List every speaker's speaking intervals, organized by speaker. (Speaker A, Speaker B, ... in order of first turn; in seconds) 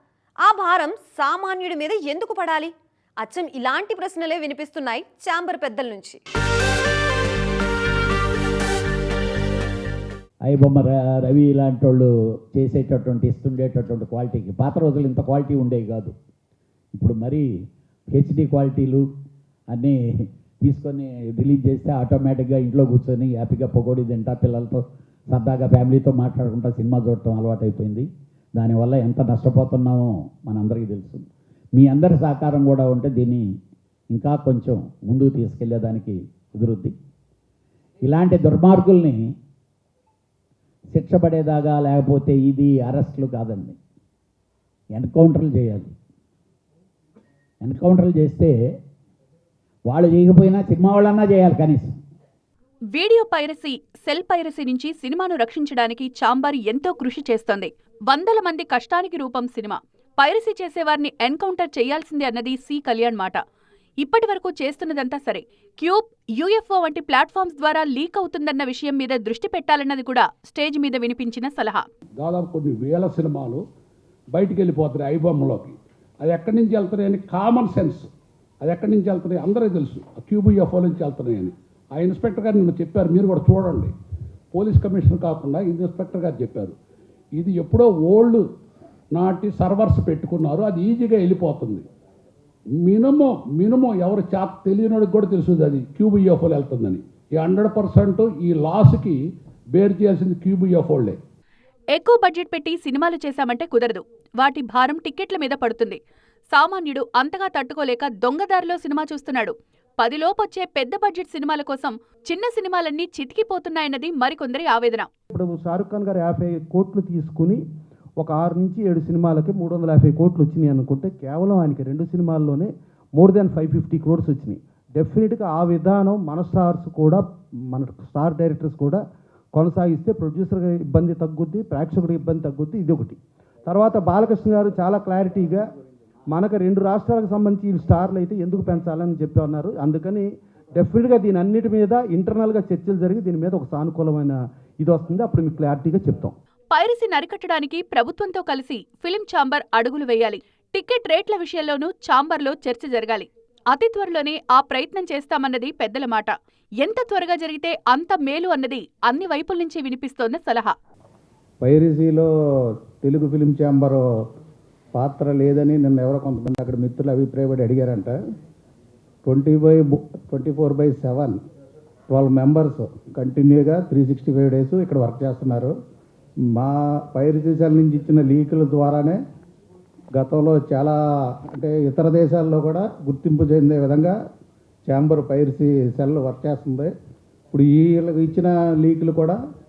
Speaker A: 0.4-6.2
Speaker B: 10.4-16.1, 16.9-17.5, 18.1-19.1, 19.7-33.5, 34.1-36.9, 38.0-39.3, 40.9-43.8, 44.9-45.9, 47.6-48.6, 49.9-52.0, 161.6-162.2, 163.0-163.9, 165.0-168.1, 169.2-171.3, 172.1-172.6, 173.5-175.7, 176.6-179.2, 180.4-180.9, 181.6-184.1, 184.9-186.9, 187.5-189.1
Speaker C: 52.9-63.4, 64.0-71.8, 101.9-106.0, 106.5-115.1, 146.7-160.7
Speaker D: 72.2-73.6, 74.3-78.1, 78.6-83.9, 84.5-86.8, 87.3-88.4, 89.1-91.8, 92.8-99.2, 99.7-101.2
Speaker E: 115.3-117.6, 118.2-129.0, 129.5-135.6, 136.3-146.3
Speaker F: 161.7-162.2, 163.3-164.0, 165.2-168.1, 169.3-169.8, 170.3-171.3, 172.2-175.7, 177.2-178.5, 180.2-180.9, 181.6-183.8, 184.9-186.7, 187.9-189.4